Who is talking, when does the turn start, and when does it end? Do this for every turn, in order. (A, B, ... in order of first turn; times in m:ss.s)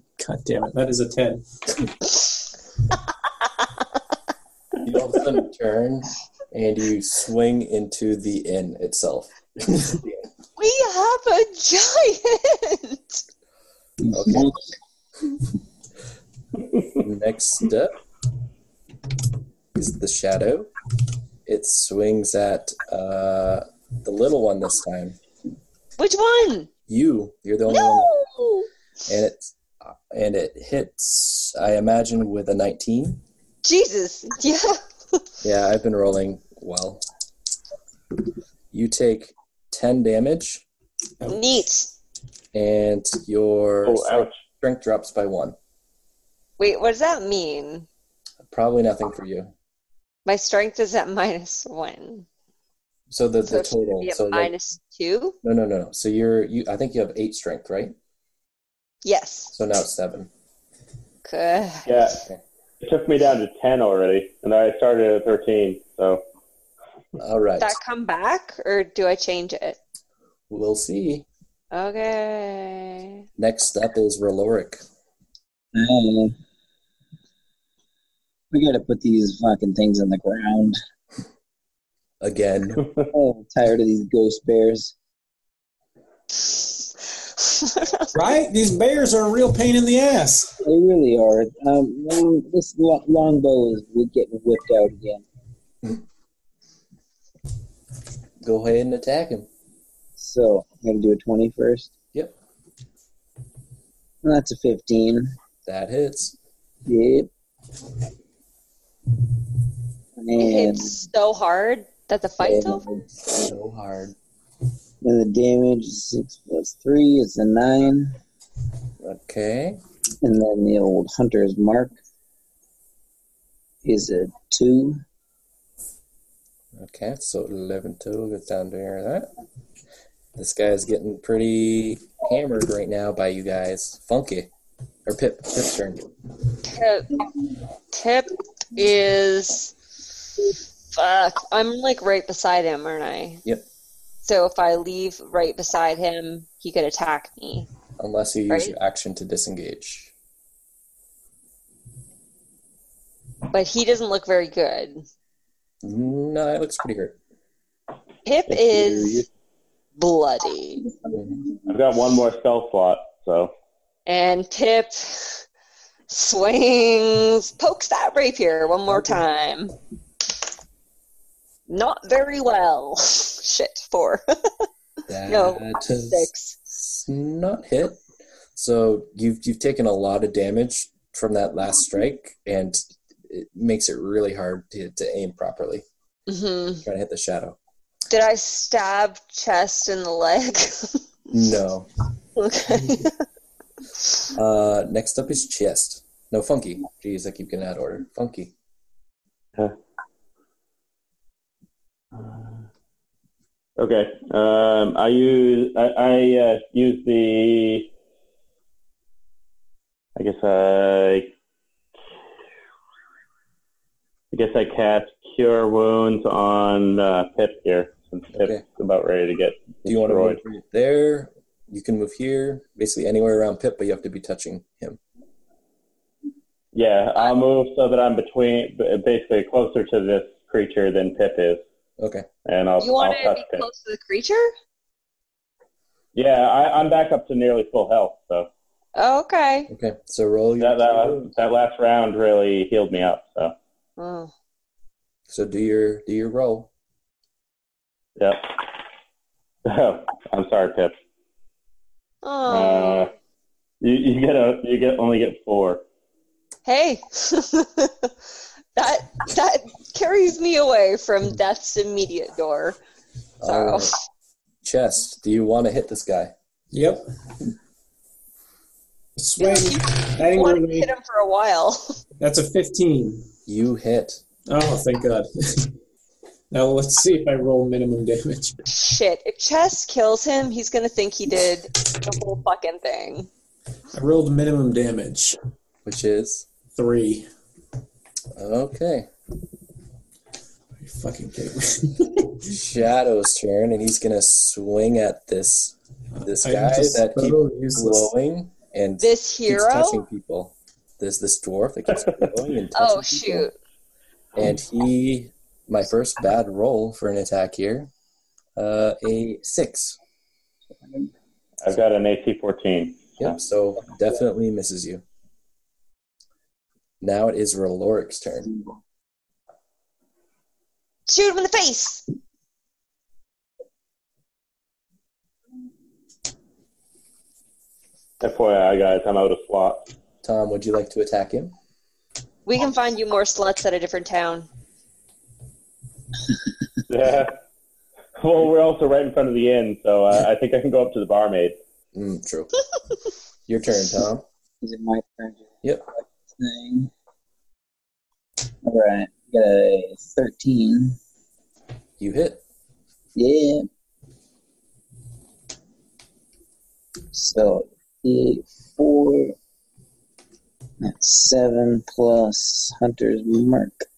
0:00.2-0:01.4 A
0:04.8-0:10.2 B
0:10.6-0:13.2 C
0:14.0-0:14.6 D
0:14.1-0:14.5 B
0:16.9-0:18.0 B
0:19.7-0:20.7 B
0:21.4-0:25.2 B
0:26.0-0:26.7 C
0:26.9-0:28.1 B
0:27.7-0:28.7 C
0:29.1-0:33.2 B
0:33.6-0:35.2 C
0:35.4-0:37.0 B
0:38.7-0:40.6 B
0:41.2-0:41.5 A
0:41.2-0:41.9 C
0:42.5-0:45.6 B
0:43.8-0:44.4 E
0:46.6-0:47.9 C
0:48.4-0:49.5 B
0:50.2-0:52.2 C
0:53.1-0:54.5 B
0:53.4-0:55.4 C
0:55.4-0:57.9 B
0:59.0-0:59.5 C
0:59.5-1:00.3 B
1:01.2-1:02.0 C
1:01.8-1:02.2 E
1:02.8-1:06.2 E
1:07.2-1:07.7 B
1:07.6-1:09.8 C
1:10.5-1:11.2 B
1:11.7-1:13.2 C
1:13.4-1:14.8 B
1:15.7-1:16.3 D
1:18.5-1:20.8 D
1:22.2-1:22.9 B
1:23.1-1:24.9 D
1:27.4-1:28.1 C
1:28.1-1:30.6 A
1:30.6-1:35.2 D
1:38.4-1:39.5 B
1:40.2-1:41.9 D
1:44.2-1:45.3 D
1:45.6-1:46.4 B
1:46.8-1:47.3 D
1:50.2-1:51.0 D
1:50.4-1:52.8 C
1:52.4-1:53.0 D
1:53.3-1:54.1 B
1:55.0-1:58.2 D
1:59.0-1:59.8 B
2:00.2-2:02.0 D
2:03.8-2:05.0 D
2:06.7-2:09.3 B
2:10.4-2:14.5 B
2:15.0-2:16.1 B
2:16.6-2:17.3 C
2:17.9-2:19.7 C
2:20.9-2:23.4 C
2:24.2-2:27.7 C
2:28.0-2:30.1 B
2:33.5-2:35.0 C
2:35.8-2:37.2 B
2:38.2-2:39.2 C
2:40.0-2:40.9 C
2:41.6-2:43.5 E
2:44.0-2:45.4 C
2:46.1-2:49.7 C
2:51.7-2:54.6 C
2:55.1-2:58.0 B
2:55.3-2:56.5 C
2:58.6-3:05.8 B
3:06.3-3:06.8 C
3:06.8-3:07.6 B
3:08.1-3:11.0 C
3:11.3-3:11.9 B
3:12.4-3:13.2 C
3:14.3-3:18.5 B
3:22.2-3:22.4 E
3:23.8-3:27.9 E
3:30.2-3:31.3 E
3:34.3-3:40.4 E
3:38.3-3:38.6 B
3:39.8-3:45.0 B
3:46.7-3:51.6 E
3:52.0-3:52.2 B
3:52.4-3:53.6 E
3:52.8-3:54.5 C
3:56.1-3:58.5 E
3:59.0-3:59.7 C
3:59.7-4:01.3 B
4:00.6-4:03.5 E
4:04.0-4:04.3 C
4:05.3-4:06.7 B
4:08.2-4:08.5 E
4:09.6-4:10.9 E
4:12.2-4:13.1 C
4:12.5-4:13.1 E
4:13.8-4:15.8 E
4:16.6-4:18.1 C
4:18.7-4:22.8 C
4:23.4-4:23.9 B
4:23.4-4:23.9 C
4:24.6-4:26.3 B
4:26.7-4:27.0 A
4:29.2-4:30.9 A
4:29.4-4:32.0 C
4:32.2-4:33.3 A
4:33.4-4:34.2 B
4:34.5-4:35.8 A
4:36.5-4:38.6 A
4:38.7-4:43.3 C
4:43.9-4:45.4 A
4:45.8-4:46.5 B
4:46.7-4:47.3 A
4:48.4-4:49.1 B
4:50.8-4:52.5 A
4:52.4-5:03.5 B
4:56.2-4:58.1 A
4:59.0-5:00.0 C
5:02.7-5:03.5 C
5:04.4-5:07.9 B
5:08.6-5:10.0 B
5:11.6-5:13.4 E
5:13.2-5:15.0 B
5:17.0-5:18.5 B
5:21.1-5:22.0 C
5:28.2-5:29.9 E
5:30.2-5:31.5 B
5:32.4-5:34.5 C
5:36.9-5:37.3 E
5:38.2-5:41.6 E
5:41.9-5:42.5 B
5:43.5-5:44.2 B
5:44.6-5:46.9 D
5:48.6-5:51.0 D
5:52.0-5:52.4 B
5:53.1-5:53.6 D
5:57.1-5:59.4 D
6:00.8-6:03.8 D